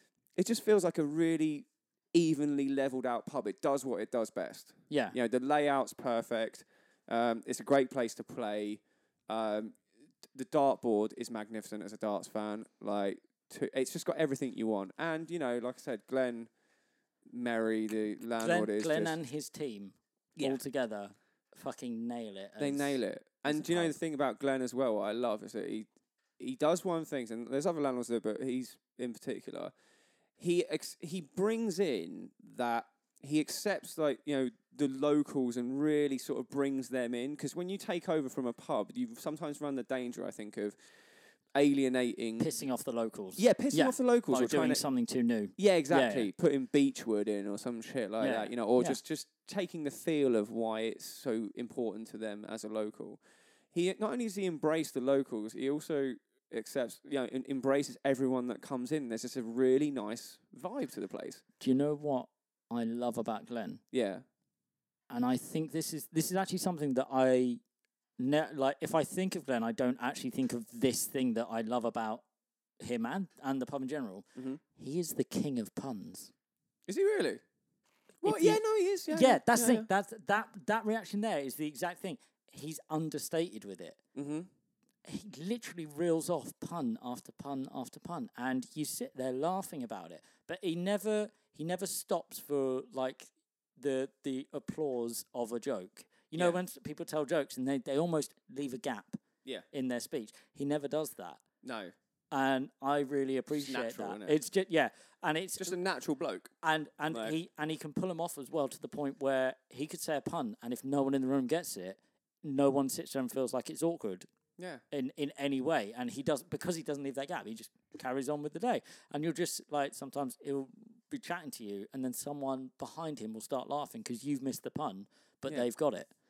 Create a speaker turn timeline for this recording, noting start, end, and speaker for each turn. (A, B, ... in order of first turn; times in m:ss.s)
0:00.4-0:09.8 A
0:04.9-0:05.2 B
0:10.3-0:16.5 A
0:17.3-0:19.2 A
0:18.2-0:24.0 B
0:22.6-0:25.9 A
0:26.4-0:29.7 A
0:30.4-0:40.8 A
0:41.6-0:42.5 A
0:42.4-0:46.3 B
0:43.4-0:44.8 A
0:45.6-0:53.2 A
0:48.2-0:49.0 B
0:53.7-1:01.4 A
1:01.6-1:03.8 B
1:03.9-1:04.2 A
1:05.1-1:07.6 B
1:08.2-1:12.2 B
1:12.8-1:16.3 B
1:14.4-1:14.6 A
1:16.9-1:17.4 A
1:18.2-1:19.9 A
1:18.2-1:24.0 B
1:24.2-1:24.5 A
1:25.0-1:39.2 B
1:39.7-1:41.4 B
1:41.6-1:41.9 A
1:42.3-1:45.8 B
1:43.5-1:44.4 A
1:45.6-1:46.5 A
1:46.6-1:54.3 B
1:47.1-1:47.4 A
1:54.6-1:54.8 A
1:54.9-2:06.1 B